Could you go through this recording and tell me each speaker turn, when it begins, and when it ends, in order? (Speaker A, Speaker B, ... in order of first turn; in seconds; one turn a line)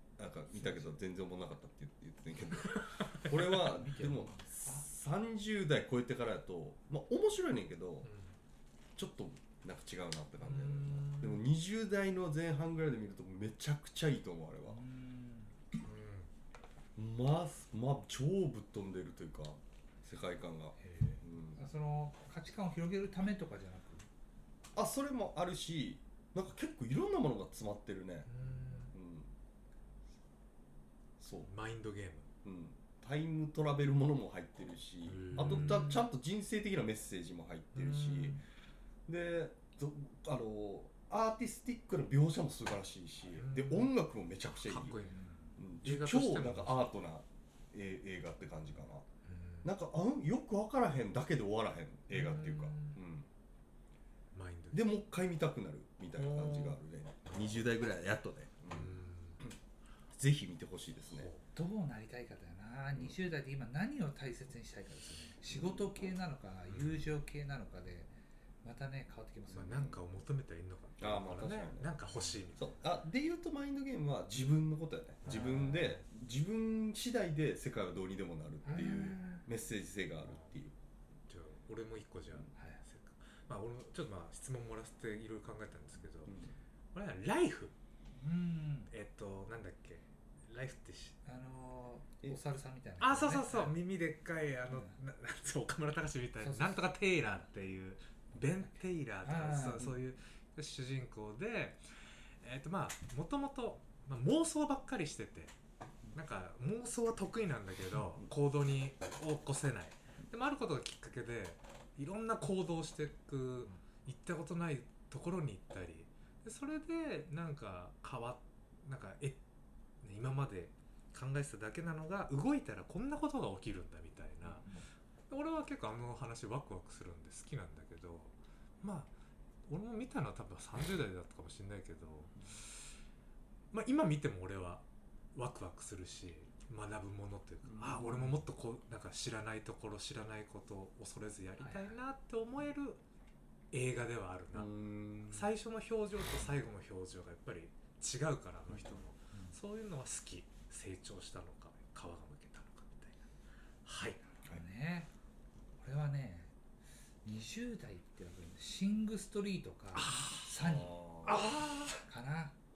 Speaker A: 0.2-8.1
Speaker B: 0.6-0.9
Speaker C: 2.8-3.5
Speaker B: 3.5-4.9
Speaker C: 8.0-8.4
Speaker A: 9.0-14.8
Speaker C: 10.4-11.4
Speaker B: 14.7-15.6
Speaker C: 15.8-16.3
Speaker A: 17.0-21.6
Speaker B: 20.8-24.1
Speaker A: 24.8-28.3
Speaker C: 28.3-28.9
Speaker A: 28.9-29.3
Speaker A: 31.2-31.5
Speaker C: 31.5-32.3
Speaker A: 32.4-38.4
Speaker C: 35.1-36.0
Speaker B: 35.3-36.0
Speaker C: 37.8-38.4
Speaker A: 39.1-45.0
Speaker C: 43.3-43.9
Speaker C: 44.6-45.1
Speaker B: 44.9-45.6
Speaker A: 45.6-49.1
Speaker C: 45.8-46.9
Speaker C: 49.2-49.7
Speaker A: 49.6-53.3
Speaker C: 52.1-53.0
Speaker C: 54.3-54.9
Speaker A: 54.7-59.6
Speaker C: 56.1-56.8
Speaker C: 58.7-59.5
Speaker A: 60.1-61.3
Speaker C: 61.1-61.4
Speaker B: 61.5-68.1
Speaker A: 65.5-66.2
Speaker C: 66.7-67.1
Speaker B: 68.6-69.9
Speaker C: 69.5-72.7
Speaker A: 69.5-70.0
Speaker A: 71.0-80.8
Speaker B: 75.3-75.8
Speaker C: 75.3-75.9
Speaker B: 78.7-79.5
Speaker C: 78.7-79.3
Speaker C: 81.3-86.3
Speaker B: 82.5-82.8
Speaker A: 86.3-86.5
Speaker C: 86.9-87.7
Speaker B: 88.1-88.9
Speaker C: 88.9-91.2
Speaker B: 91.2-93.8
Speaker C: 93.0-101.8
Speaker B: 94.7-95.0
Speaker B: 96.4-96.9
Speaker B: 98.4-100.0
Speaker C: 102.4-105.5
Speaker C: 106.1-119.4
Speaker C: 120.0-124.7
Speaker B: 124.4-124.9
Speaker C: 125.3-129.1
Speaker C: 129.7-132.8
Speaker C: 133.7-143.0
Speaker A: 137.7-138.4
Speaker B: 141.6-142.0
Speaker C: 143.7-144.7
Speaker A: 144.5-145.6
Speaker C: 145.3-153.3
Speaker A: 148.7-149.0
Speaker B: 149.3-149.6
Speaker C: 153.8-154.2
Speaker B: 154.4-155.1
Speaker B: 155.8-156.6
Speaker B: 157.2-161.5
Speaker C: 159.9-160.4
Speaker A: 160.5-161.5
Speaker C: 161.2-162.0
Speaker B: 162.0-162.6